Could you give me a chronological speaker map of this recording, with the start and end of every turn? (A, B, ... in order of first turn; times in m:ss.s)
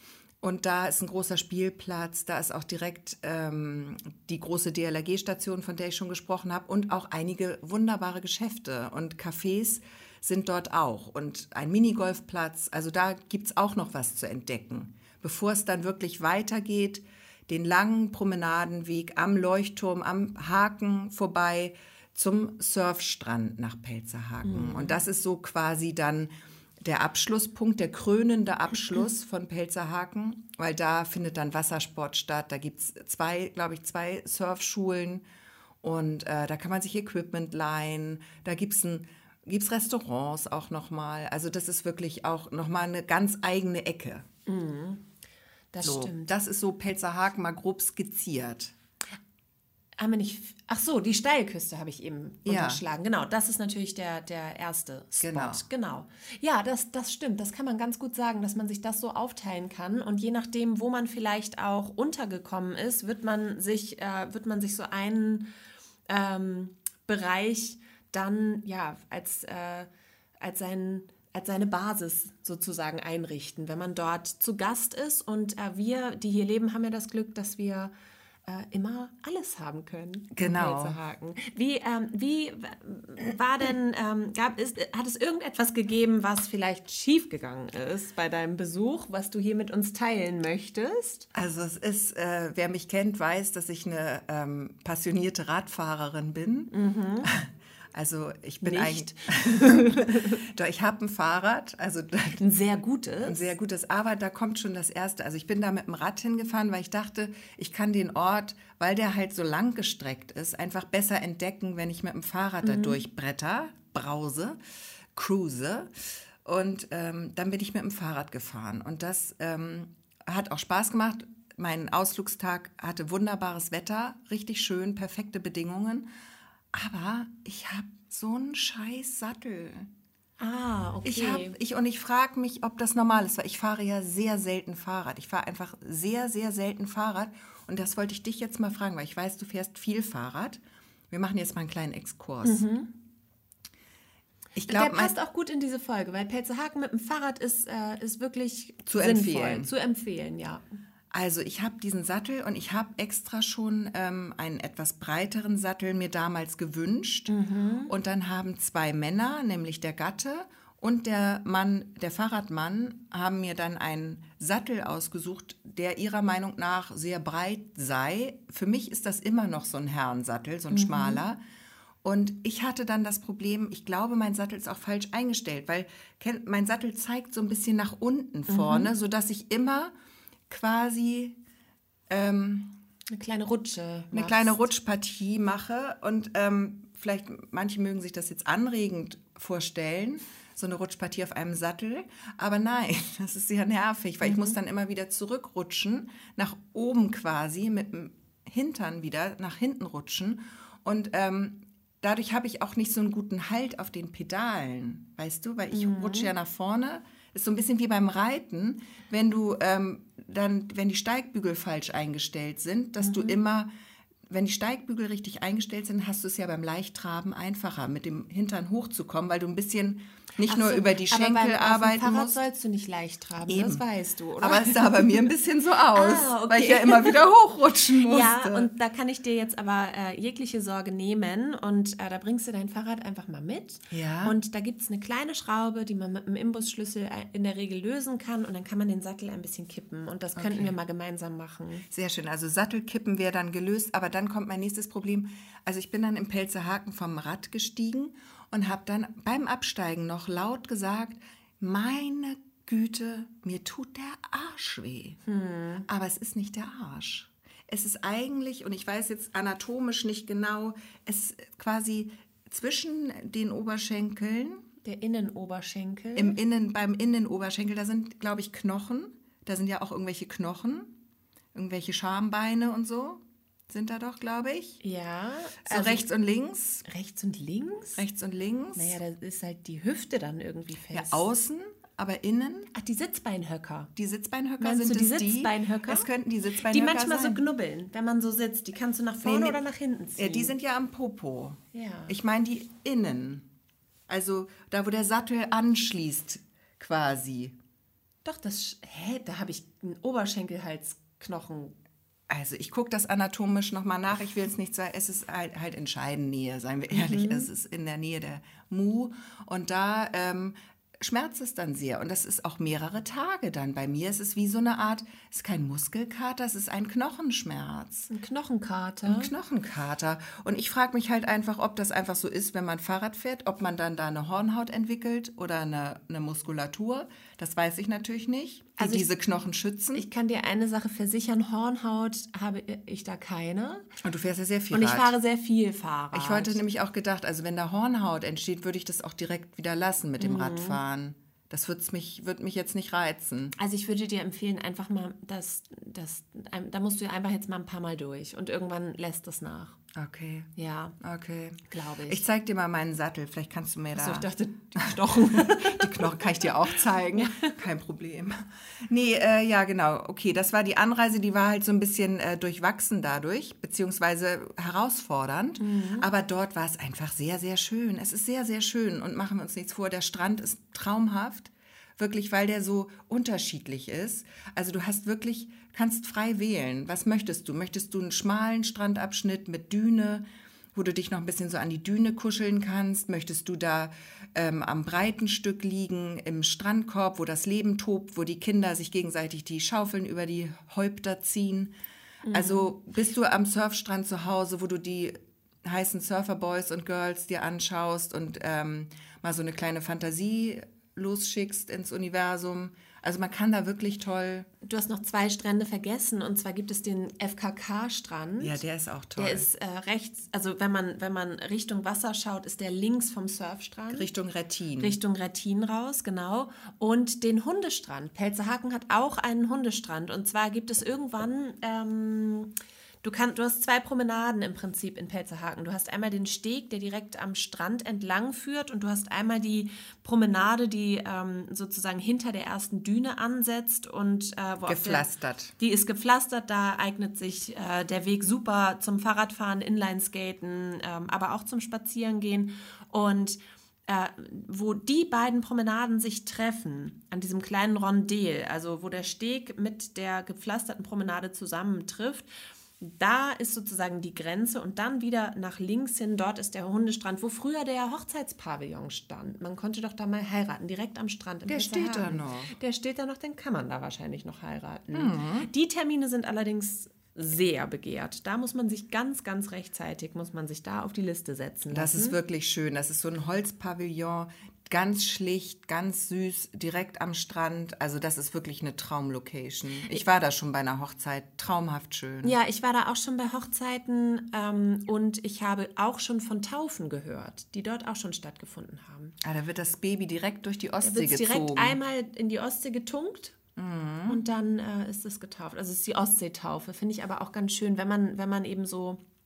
0:00.4-0:35.2 A
0:24.4-0:25.0 B
0:35.8-0:44.3 A
0:44.5-0:45.0 B
0:45.7-0:46.3 B
0:45.8-0:48.7 A
0:50.0-1:05.5 B
0:52.4-0:52.8 A
0:55.2-0:55.6 A
1:06.1-1:09.9 B
1:10.4-1:17.9 B
1:18.5-1:31.3 B
1:20.4-1:21.0 A
1:31.3-1:36.7 A
1:36.7-1:37.3 B
1:37.2-1:42.4 A
1:38.6-1:40.4 B
1:42.4-1:43.6 B
1:43.2-1:54.6 A
1:52.6-1:53.0 B
1:55.2-1:55.9 A
1:56.4-2:06.1 A
2:06.7-2:09.9 A
2:10.4-2:11.6 B
2:11.0-2:22.6 A
2:22.4-2:22.9 B
2:24.6-2:25.1 A
2:24.7-2:30.6 B
2:28.9-2:29.7 A
2:31.1-2:37.3 A
2:37.3-2:37.9 B
2:37.9-2:51.4 A
2:50.7-2:51.2 B
2:52.0-2:59.9 A
2:58.5-2:58.9 B
3:00.5-3:01.4 A
3:02.1-3:02.8 A
3:03.1-3:04.7 B
3:04.1-3:33.7 A
3:14.2-3:14.6 B
3:25.7-3:26.3 B
3:33.0-3:33.4 B
3:34.3-3:42.4 A
3:40.5-3:45.3 B
3:43.5-3:43.8 A
3:44.4-3:48.7 A
3:45.9-3:47.2 B
3:48.0-4:01.8 B
3:53.9-3:54.4 A
4:00.4-4:00.7 A
4:01.9-4:15.2 A
4:15.3-4:15.9 B
4:15.9-4:24.6 A
4:24.8-4:26.4 B
4:26.2-4:30.9 A
4:31.5-4:34.8 A
4:34.8-4:36.0 B
4:35.6-4:36.8 A
4:36.8-4:38.0 B
4:38.0-4:39.0 A
4:38.8-4:41.2 B
4:40.9-4:42.7 A
4:42.7-4:43.9 B
4:44.0-4:47.4 A
4:44.6-4:46.1 B
4:46.7-4:50.5 B
4:49.2-4:49.6 A
4:50.2-4:53.5 A
4:51.7-4:52.2 B
4:54.1-4:57.6 A
4:58.2-5:01.8 B
5:02.3-5:18.1 A
5:06.9-5:07.5 B
5:18.1-5:19.3 B
5:19.1-5:30.0 A
5:28.8-5:29.1 B
5:29.9-5:33.9 B
5:34.0-5:35.1 A
5:34.7-5:36.6 B
5:36.1-5:43.6 A
5:40.2-5:40.8 B
5:43.6-5:49.8 B
5:50.0-5:54.3 A
5:50.6-5:51.0 B
5:51.7-5:52.2 B
5:54.0-5:57.6 B
5:54.8-6:31.7 A
6:05.6-6:06.1 B
6:32.2-6:32.7 B
6:32.3-6:44.5 A
6:44.6-6:48.6 B
6:48.4-6:49.5 A
6:49.2-6:54.1 B
6:53.9-6:55.0 A
6:54.8-7:15.1 B
7:14.7-7:15.5 A
7:15.6-7:32.3 B
7:32.8-7:52.2 B
7:41.5-7:42.5 A
7:44.9-7:45.5 A
7:51.7-8:02.4 A
8:02.2-8:09.2 B
8:09.2-8:11.8 A
8:10.8-8:13.4 B
8:13.6-8:14.2 A
8:14.1-8:19.0 B